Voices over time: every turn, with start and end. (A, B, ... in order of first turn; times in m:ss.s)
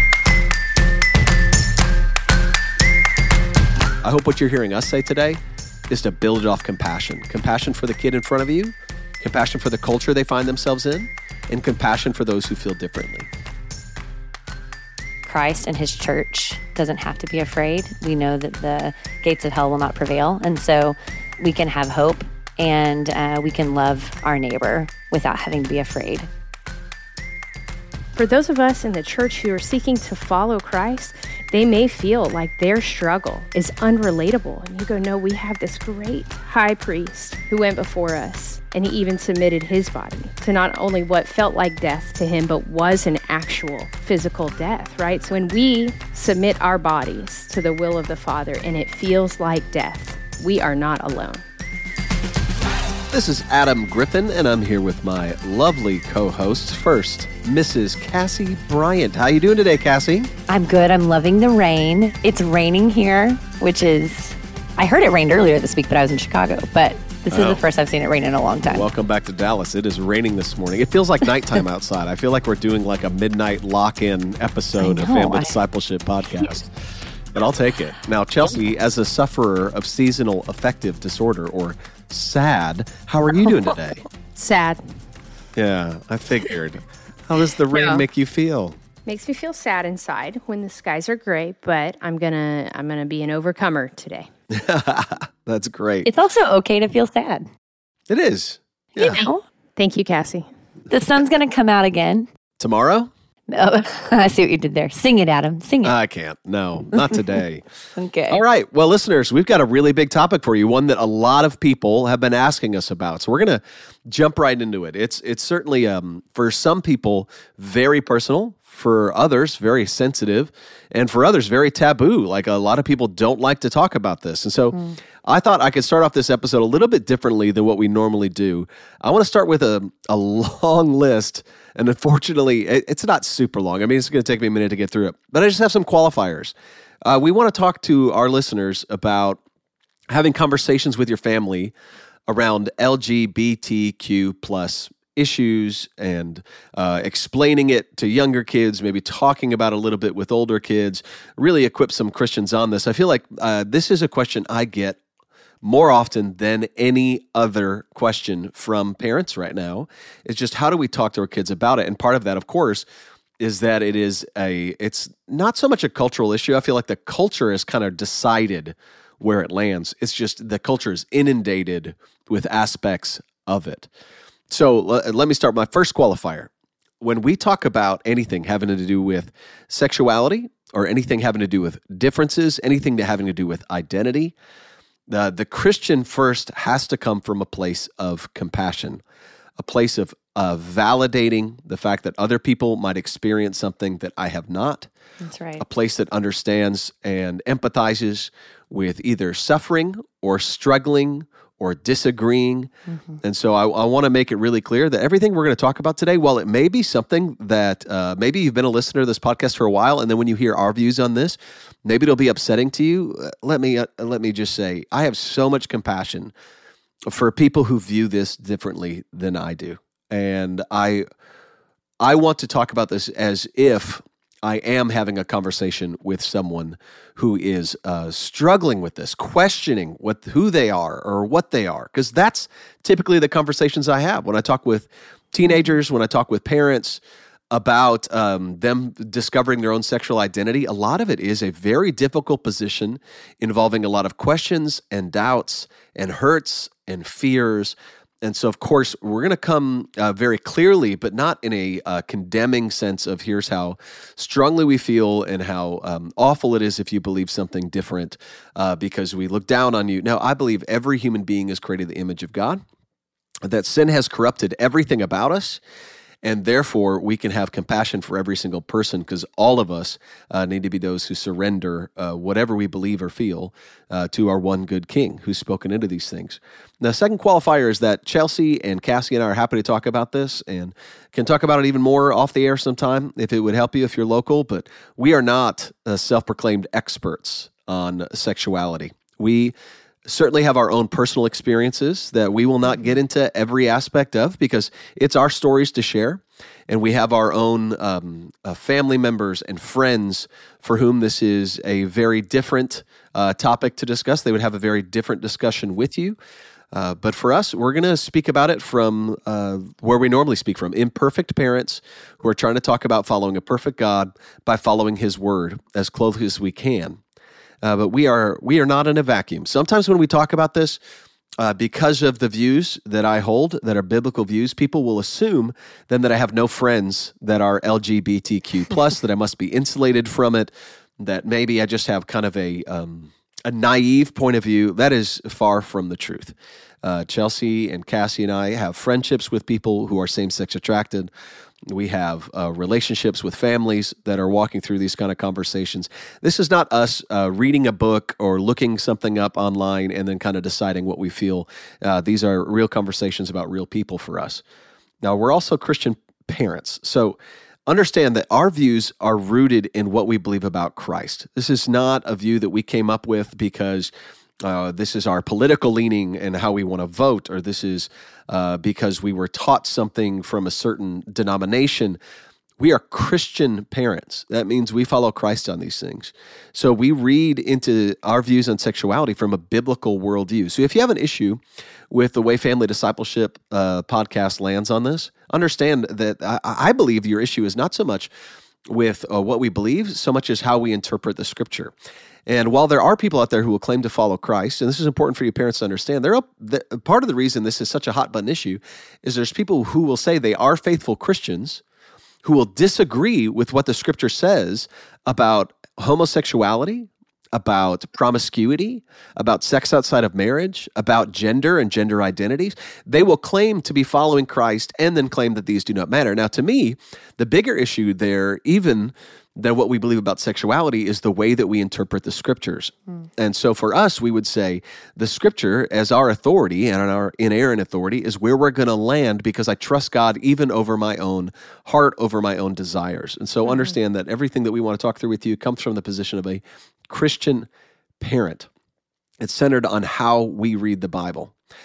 0:04.0-0:13.3 A
0:15.2-0:26.3 B
0:28.1-0:51.4 C
0:53.1-1:00.3 A
1:00.5-1:08.9 B
1:07.3-1:07.6 A
1:08.6-1:16.7 A
1:14.8-1:15.6 B
1:17.3-1:24.0 A
1:24.4-1:24.8 C
1:25.6-1:28.8 A
1:27.7-1:28.0 B
1:29.0-1:34.3 C
1:34.5-1:36.1 A
1:36.0-1:37.4 B
1:38.1-1:39.2 A
1:39.0-1:39.4 B
1:39.8-1:40.4 C
1:40.9-1:42.3 B
1:42.6-1:43.1 A
1:43.5-1:45.9 B
1:45.8-1:47.6 A
1:47.9-1:48.4 B
1:48.3-2:19.4 A
2:04.7-2:05.0 B
2:20.1-2:21.7 A
2:22.3-2:35.0 A
2:35.6-2:42.9 A
2:43.4-2:53.9 A
2:54.5-3:04.3 A
3:05.1-3:09.0 A
3:09.6-3:14.9 A
3:15.2-3:15.6 B
3:15.6-3:22.7 A
3:22.9-3:23.2 B
3:23.2-3:36.3 A
3:37.0-3:41.0 A
3:42.0-4:22.6 A
4:23.4-4:25.6 A
4:26.2-5:06.2 A
5:06.7-5:17.0 A
5:17.6-5:20.8 A
5:21.4-5:41.1 A
5:41.7-5:54.4 A
5:55.0-6:12.0 A
6:12.6-6:28.1 A
6:28.7-6:31.7 A
6:32.2-6:41.6 A
6:42.2-7:17.5 A
7:18.0-7:18.5 A
7:19.2-7:21.3 A